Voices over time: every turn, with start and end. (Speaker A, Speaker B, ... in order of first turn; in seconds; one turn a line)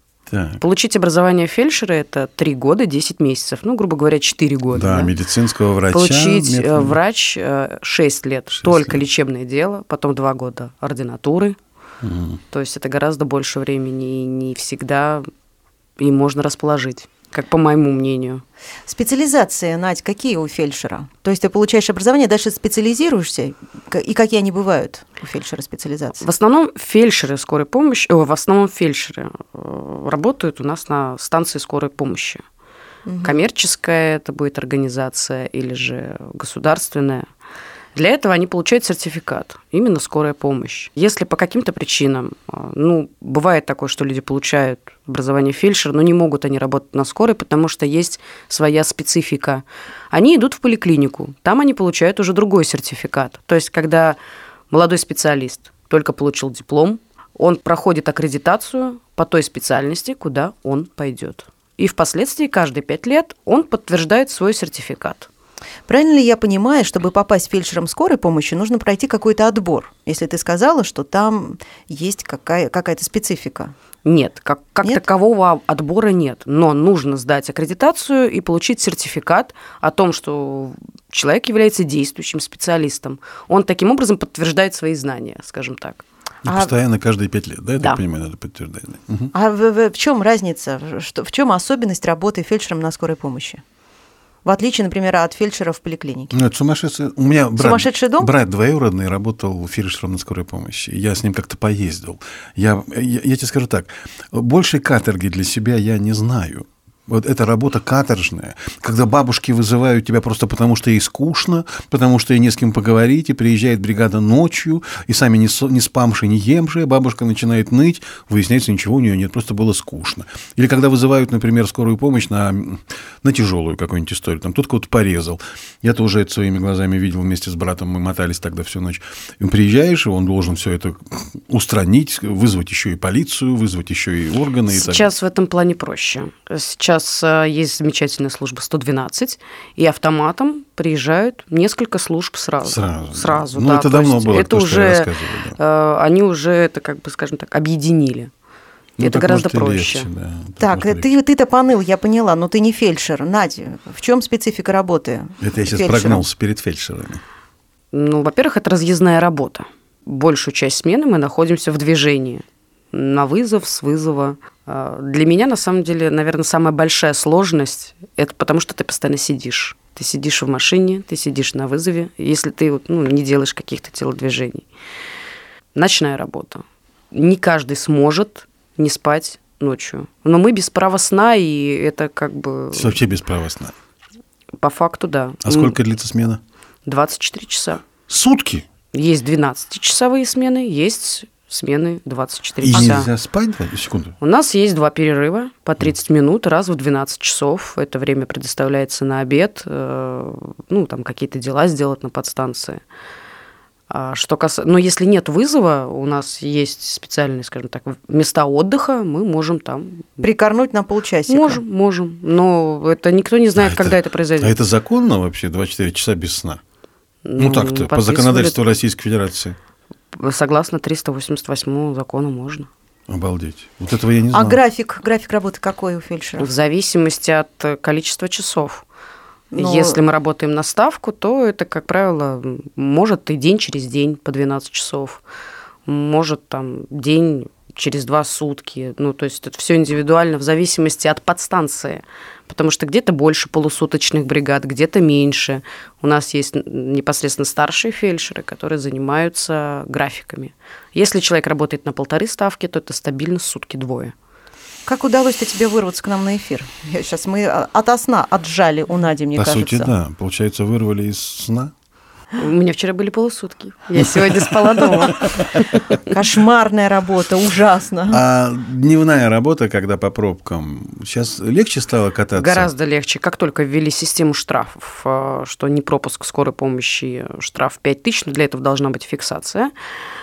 Speaker A: 0.3-0.6
Speaker B: 0.6-5.1
Speaker A: 4.7-7.0
Speaker B: 5.9-11.6
Speaker A: 8.6-9.0
Speaker A: 12.0-12.4
Speaker B: 12.5-15.2
Speaker B: 16.0-18.4
Speaker C: 18.9-26.2
Speaker B: 26.2-32.4
Speaker C: 33.0-33.4
Speaker B: 33.2-37.2
Speaker B: 37.9-54.2
Speaker B: 54.7-65.3
Speaker C: 65.9-73.7
Speaker B: 74.0-86.0
Speaker A: 86.4-89.3
Speaker C: 86.5-86.7
Speaker C: 89.3-93.6
Speaker C: 94.4-96.3
Speaker A: 96.3-135.1
Speaker C: 97.6-98.3
Speaker B: 134.7-148.3
Speaker A: 142.6-145.6
Speaker A: 149.0-151.1
Speaker B: 149.0-150.1
Speaker C: 150.6-156.2
Speaker A: 155.4-157.2
Speaker B: 157.9-174.6
Speaker B: 175.7-183.0
Speaker A: 182.7-183.7
Speaker B: 184.6-185.7
Speaker A: 185.4-186.4
Speaker B: 186.8-187.8
Speaker A: 188.1-188.6
Speaker B: 188.9-193.1
Speaker A: 192.6-194.1
Speaker C: 192.7-193.0
Speaker B: 194.2-202.8
Speaker B: 203.9-210.2
Speaker C: 210.2-211.6
Speaker B: 211.3-214.6
Speaker A: 213.6-216.6
Speaker B: 217.2-218.8
Speaker A: 217.4-219.6
Speaker B: 220.1-222.7
Speaker A: 223.1-224.6
Speaker C: 224.3-226.5
Speaker B: 226.4-228.8
Speaker C: 229.5-230.0
Speaker B: 229.5-235.2
Speaker B: 235.8-254.1
Speaker C: 254.8-259.9
Speaker A: 259.4-261.7
Speaker B: 262.4-266.0
Speaker A: 264.0-265.4
Speaker C: 266.1-268.2
Speaker A: 268.1-272.7
Speaker B: 272.3-279.7